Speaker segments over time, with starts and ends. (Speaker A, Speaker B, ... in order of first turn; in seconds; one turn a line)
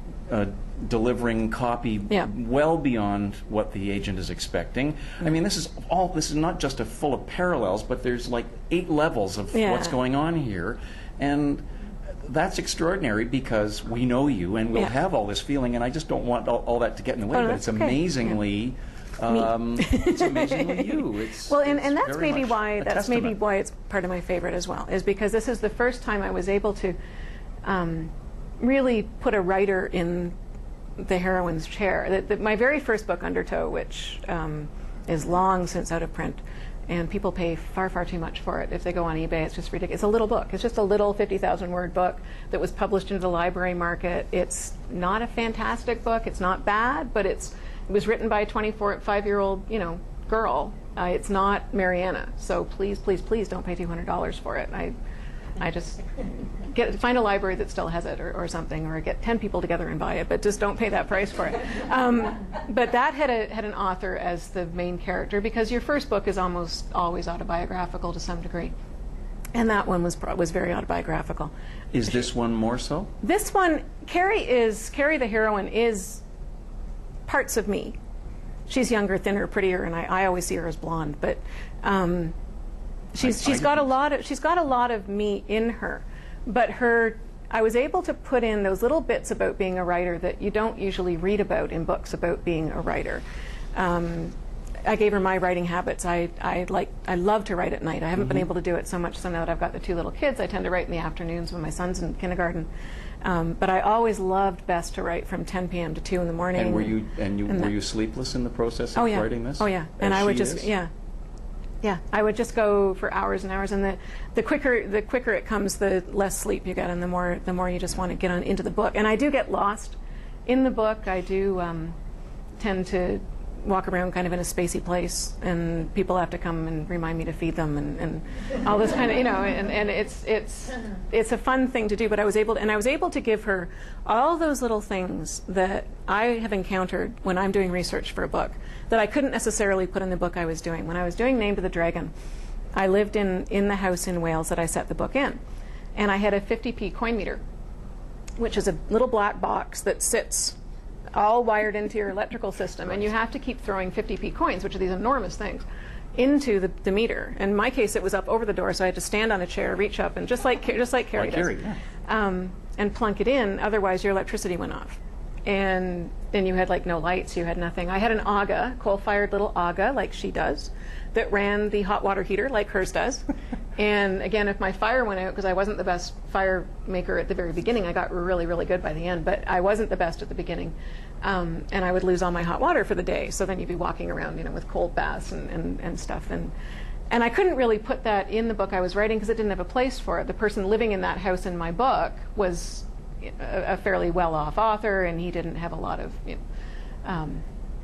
Speaker A: 0.3-11.6
Speaker B: 9.5-10.0
Speaker A: 12.2-23.4
Speaker B: 17.3-18.3
Speaker B: 19.3-27.0
Speaker B: 27.7-30.4
Speaker B: 31.0-54.9
Speaker B: 55.6-68.7
Speaker B: 69.5-71.5
Speaker A: 71.9-73.1
Speaker B: 73.2-76.2
Speaker B: 77.3-78.0
Speaker B: 78.7-82.3
Speaker B: 83.1-93.2
Speaker A: 83.2-83.8
Speaker B: 93.8-94.3
Speaker B: 94.8-102.7
Speaker B: 103.2-107.7
Speaker A: 106.6-110.7
Speaker B: 109.0-110.9
Speaker B: 111.8-122.0
Speaker B: 122.6-142.1
Speaker B: 142.8-145.4
Speaker B: 146.0-147.4
Speaker B: 148.4-150.6
Speaker B: 151.2-155.6
Speaker B: 156.2-173.2
Speaker A: 161.2-161.8
Speaker B: 173.8-186.5
Speaker B: 187.1-196.4
Speaker B: 197.1-197.4